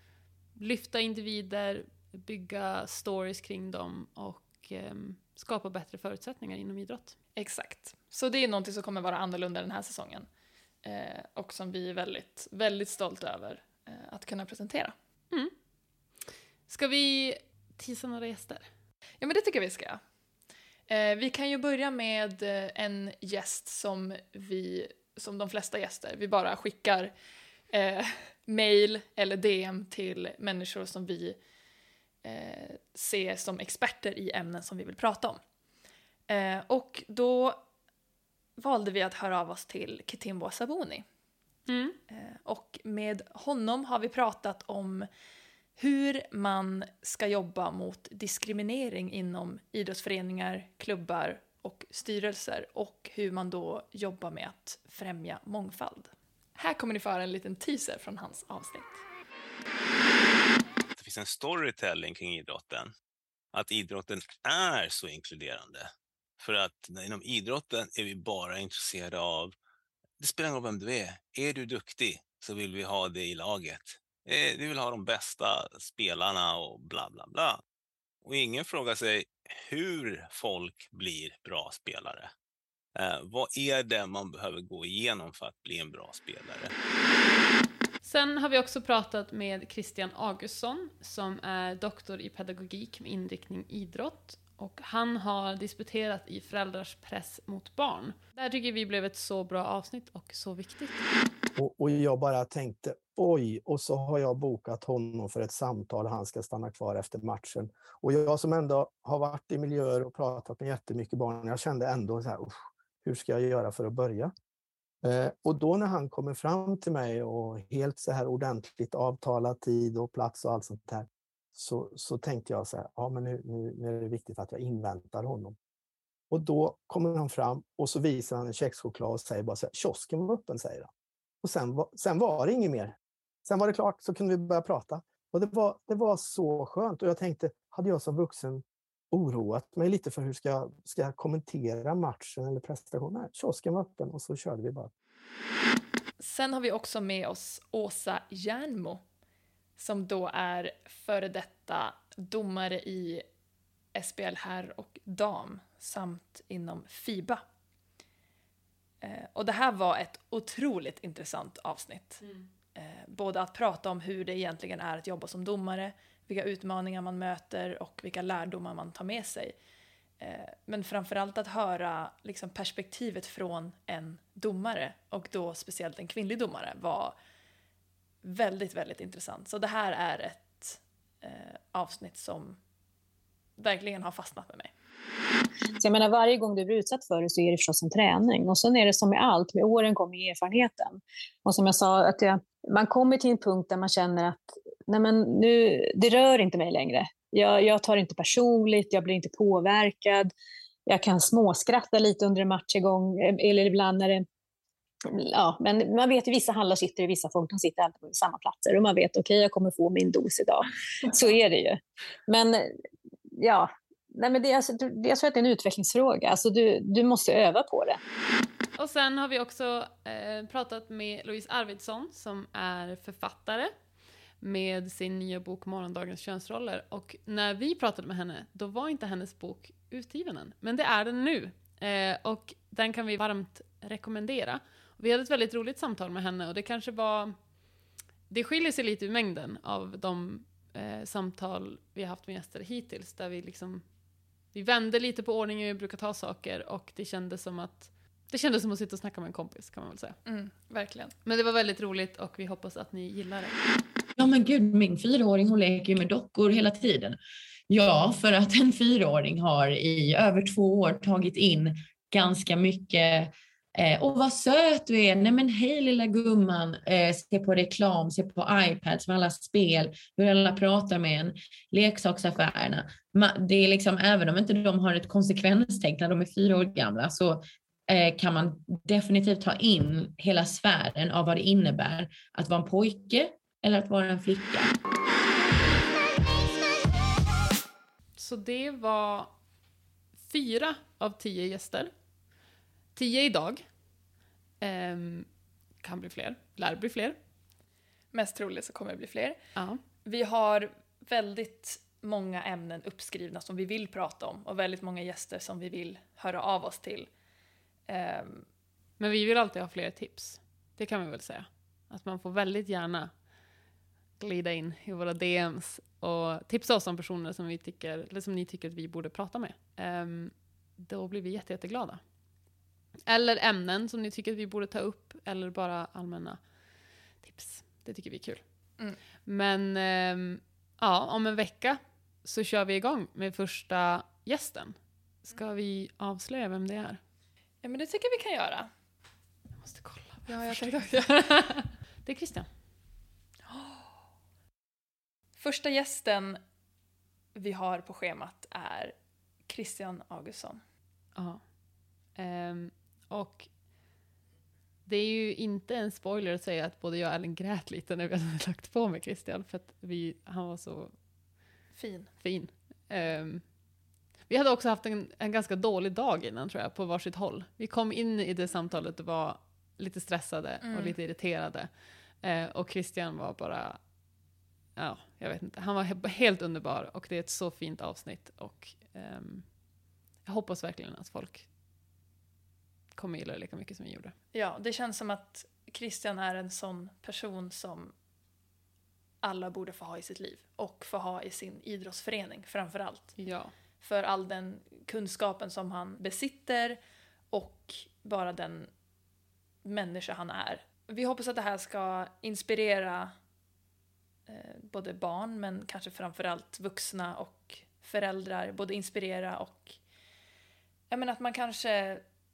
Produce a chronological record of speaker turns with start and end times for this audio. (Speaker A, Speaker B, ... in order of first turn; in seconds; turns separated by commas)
Speaker A: 0.6-7.2, Speaker B: 7.3-10.3, Speaker B: 10.8-14.9, Speaker A: 16.7-18.7, Speaker B: 19.2-20.0, Speaker B: 20.9-27.1, Speaker B: 27.7-31.4, Speaker B: 32.2-35.4, Speaker B: 36.3-37.6, Speaker B: 38.6-41.0, Speaker A: 41.7-42.0, Speaker B: 42.1-45.1, Speaker B: 45.8-59.0, Speaker C: 61.0-62.9, Speaker C: 63.5-65.8, Speaker C: 66.4-69.5, Speaker C: 70.2-77.6, Speaker C: 78.2-82.3, Speaker C: 83.0-86.7, Speaker A: 88.0-101.0, Speaker D: 101.5-114.3, Speaker D: 115.0-125.5, Speaker D: 126.3-130.9, Speaker D: 131.4-144.9, Speaker B: 146.2-149.0, Speaker B: 149.8-153.2, Speaker B: 153.9-157.4, Speaker B: 159.0-162.2, Speaker B: 162.7-169.6, Speaker B: 170.2-177.1, Speaker B: 178.2-182.6, Speaker B: 183.6-184.7, Speaker E: 185.8-200.3, Speaker E: 200.9-204.2, Speaker E: 205.1-212.6, Speaker E: 213.4-218.0, Speaker A: 218.8-223.7, Speaker A: 224.4-237.3, Speaker A: 238.3-243.8, Speaker A: 244.5-250.2, Speaker B: 250.2-251.1, Speaker A: 251.2-253.6, Speaker F: 254.2-284.7, Speaker A: 288.2-289.3, Speaker A: 290.2-291.9, Speaker A: 292.9-293.6, Speaker A: 294.6-295.3, Speaker A: 295.8-297.2, Speaker B: 298.1-299.4, Speaker B: 300.0-307.1, Speaker B: 307.9-308.4, Speaker A: 309.0-313.1, Speaker A: 314.2-322.0, Speaker A: 323.1-326.4, Speaker A: 327.2-328.4, Speaker A: 329.2-337.0, Speaker B: 337.6-338.7, Speaker A: 339.6-342.5, Speaker B: 340.3-341.5, Speaker B: 343.5-343.9, Speaker B: 345.4-346.4, Speaker B: 347.3-348.9, Speaker B: 349.4-350.6, Speaker A: 352.1-353.5, Speaker A: 354.9-360.9, Speaker B: 361.7-362.1, Speaker A: 362.2-363.4, Speaker A: 364.3-371.7, Speaker B: 370.6-370.9, Speaker A: 372.2-373.8, Speaker A: 374.8-379.5, Speaker A: 380.2-381.5, Speaker A: 382.9-384.1, Speaker B: 384.3-387.9, Speaker B: 389.2-393.2, Speaker A: 393.2-393.5, Speaker B: 393.8-396.8, Speaker B: 397.3-398.7, Speaker B: 399.6-403.1, Speaker B: 404.3-409.8, Speaker B: 410.9-412.0